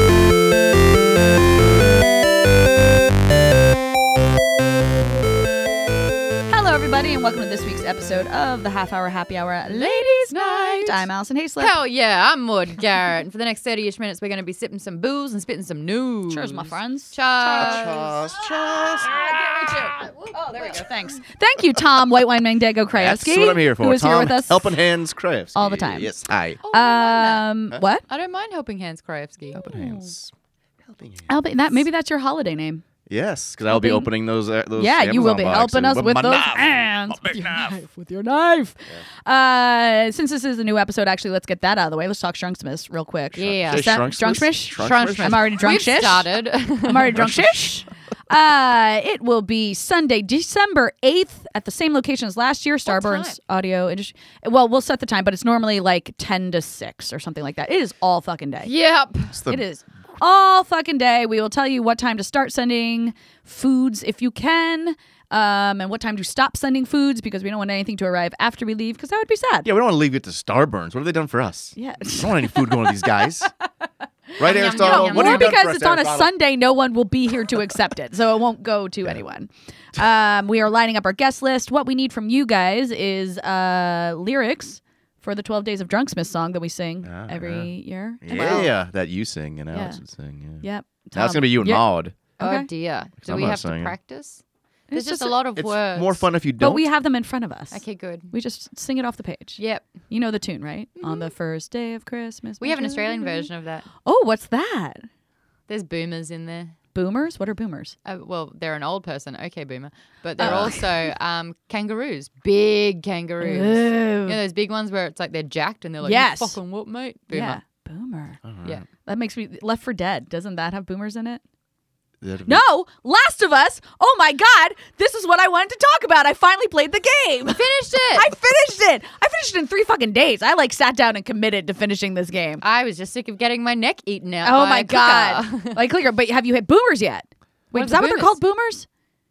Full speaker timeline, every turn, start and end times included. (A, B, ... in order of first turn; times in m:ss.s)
0:06.5-0:11.7 A
0:09.6-0:18.0 B
0:16.3-0:18.3 A
0:17.6-0:19.2 C
0:19.0-0:24.8 A
0:22.9-0:26.6 C
0:25.5-0:26.1 A
0:26.6-0:27.5 B
0:26.7-0:28.0 A
0:28.1-0:29.6 B
0:29.5-0:30.1 A
0:29.5-0:30.3 C
0:30.8-0:31.8 C
0:31.3-0:32.8 A
0:33.1-0:37.8 C
0:33.7-0:34.1 A
0:34.7-0:46.3 A
0:43.4-0:43.9 B
0:43.4-0:45.6 C
0:44.8-0:47.3 B
0:46.8-0:58.7 A
0:52.9-0:53.4 B
0:58.6-0:59.3 B
0:59.3-0:59.6 C
0:59.4-1:09.7 A
1:09.6-1:13.5 C
1:11.8-1:13.4 A
1:14.3-1:28.7 A
1:14.4-1:16.3 C
1:14.4-1:15.5 B
1:27.0-1:32.2 C
1:29.7-1:30.0 A
1:30.6-1:32.7 A
1:32.4-1:36.2 B
1:33.2-1:33.9 C
1:34.9-1:35.4 A
1:35.5-1:36.9 C
1:36.6-1:43.5 A
1:37.7-1:38.3 B
1:39.6-1:39.9 B
1:41.0-1:41.3 B
1:42.6-1:43.9 B
1:44.0-1:45.0 A
1:45.7-1:46.7 B
1:46.9-1:47.9 A
1:48.0-1:57.6 B
1:50.4-1:50.9 A
1:50.4-1:50.7 C
1:53.4-1:54.4 A
1:56.0-1:56.6 A
1:57.3-1:58.4 A
1:58.4-1:58.8 C
1:59.0-2:01.4 A
2:02.2-2:02.6 C
2:02.4-2:12.6 A
2:07.4-2:08.3 B
2:12.6-2:15.8 B
2:14.4-2:18.9 A
2:17.7-2:18.4 B